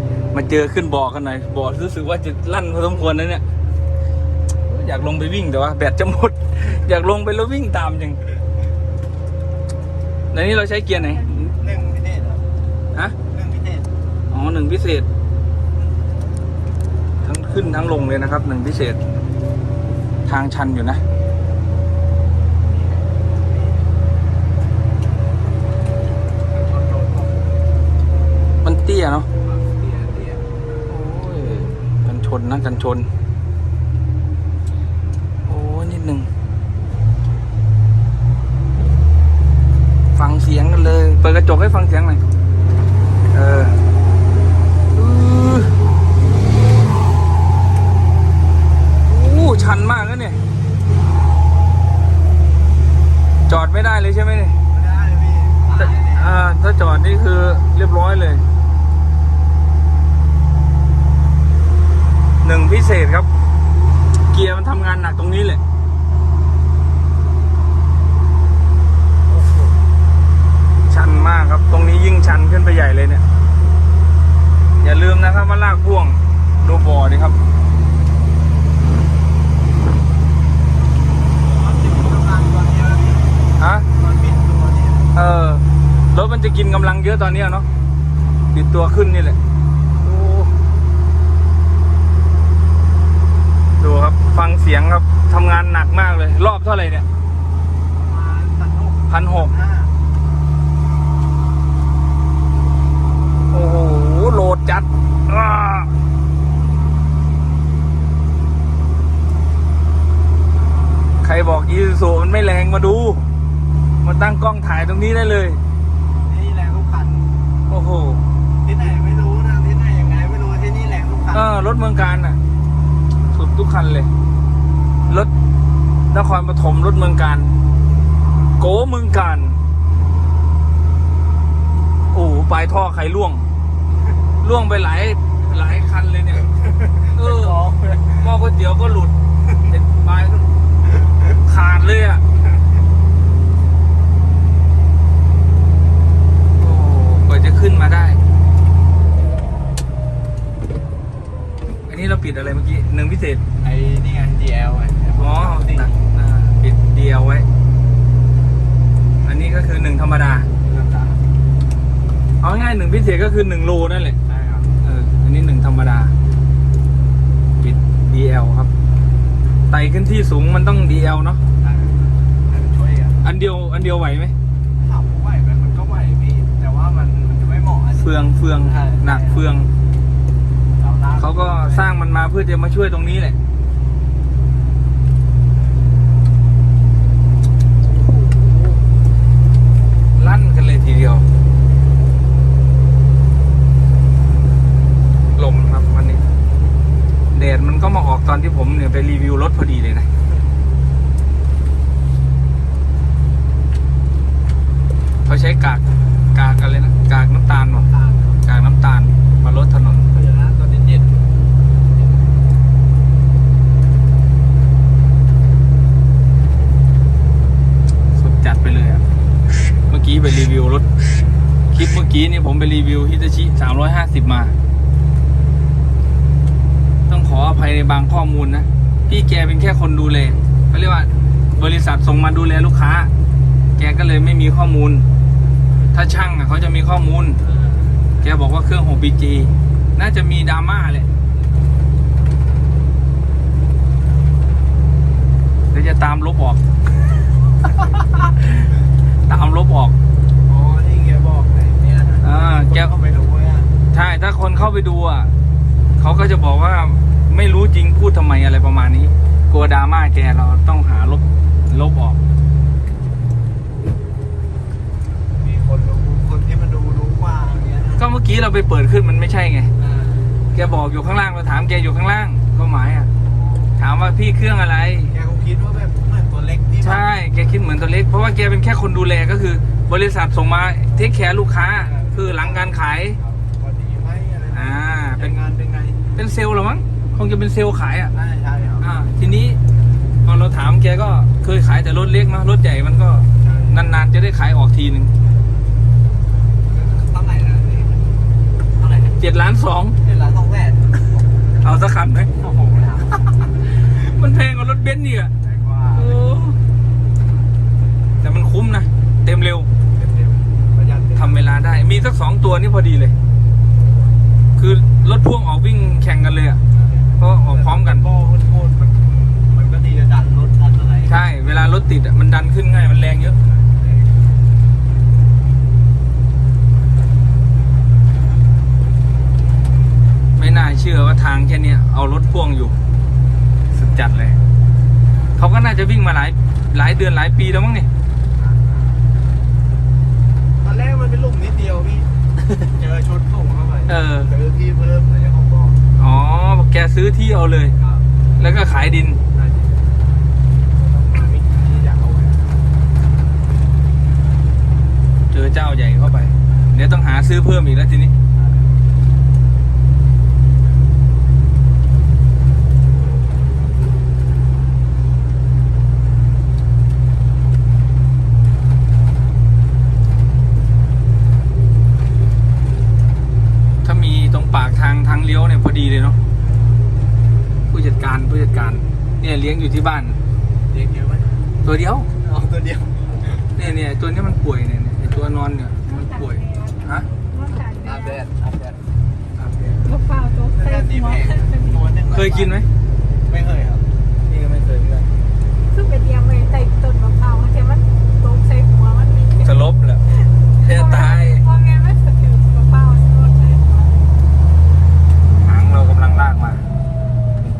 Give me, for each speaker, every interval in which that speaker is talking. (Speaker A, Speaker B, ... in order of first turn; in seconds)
Speaker A: 0.3-3.4, 4.7-8.2, 10.3-11.5, 14.3-15.1, 17.2-19.0, 20.2-21.0, 28.6-29.3, 30.9-33.1, 35.5-36.3, 40.1-42.2, 43.3-43.8, 44.9-45.8, 49.0-50.4, 53.5-54.6, 55.8-58.4, 62.4-63.3, 64.3-65.6, 70.9-73.2, 74.8-77.4, 83.6-83.9, 85.1-87.7, 88.5-89.4, 90.0-90.5, 93.8-97.0, 99.1-99.5, 103.5-105.9, 111.2-113.3, 114.0-115.6, 117.7-118.2, 121.3-122.4, 123.3-124.1, 125.1-125.3, 126.1-127.6, 128.6-129.6, 132.1-133.4, 134.4-136.5, 137.1-137.6, 138.2-139.1, 139.7-140.5, 141.4-142.2, 146.6-148.2, 151.9-153.4, 155.2-157.5, 159.2-160.5, 162.4-164.2, 164.8-166.1, 167.6-168.7, 169.7-171.4, 173.2-174.3, 178.0-179.7, 181.2-183.3, 188.1-188.8, 190.1-191.2, 195.3-196.2, 197.3-200.1, 205.2-205.8, 206.3-207.9, 208.4-210.1, 218.1-219.0, 219.9-220.9, 221.7-224.5, 227.1-233.1, 233.8-235.1, 235.9-237.4, 238.2-241.1, 245.7-246.6, 247.9-249.9, 252.2-252.9, 253.9-255.3, 256.0-262.2, 268.0-269.7, 270.5-273.1, 273.8-275.1, 276.8-283.2, 284.5-285.4, 286.1-288.1, 288.8-289.6, 290.2-295.1, 299.2-300.0, 301.6-302.3, 303.6-305.3, 305.9-306.6, 308.2-309.7, 311.2-313.1, 314.6-316.6, 317.2-318.1, 321.0-323.4, 330.4-332.7, 333.7-334.4, 335.4-337.9, 343.9-344.3, 346.0-347.7, 348.4-349.2, 355.3-358.1, 373.8-376.2, 377.7-380.2, 381.6-382.1, 383.6-387.1, 389.4-389.8, 392.1-392.7, 394.2-395.1, 399.4-400.0, 400.6-401.5, 405.4-406.6
Speaker B: 11.0-11.5, 385.8-388.2, 389.8-391.9, 395.7-404.0
Speaker C: 11.5-12.4, 13.3-13.9, 22.7-23.9, 26.5-27.6, 29.4-30.5, 54.7-56.3, 69.4-69.7, 81.4-85.1, 97.9-99.9, 116.2-117.3, 118.6-121.5, 136.9-138.3, 153.6-155.9, 160.6-161.2, 164.2-164.7, 171.6-173.2, 174.8-179.5, 180.7-181.9, 207.7-208.4, 210.0-211.2, 237.4-238.1, 250.4-253.7, 265.3-268.1, 269.8-270.3, 273.2-273.9, 275.1-277.0, 281.8-286.0, 288.1-288.9, 293.4-294.0, 296.7-298.1, 298.7-299.2, 300.0-301.2, 302.4-303.4, 305.4-306.2, 309.9-311.4, 316.7-321.1, 323.4-324.2, 338.4-338.7, 340.6-342.1, 342.7-345.8, 347.8-348.1, 349.3-349.9, 350.7-352.5, 358.3-358.8, 380.7-381.4, 382.2-383.5, 387.5-388.8, 390.5-392.6, 393.2-393.9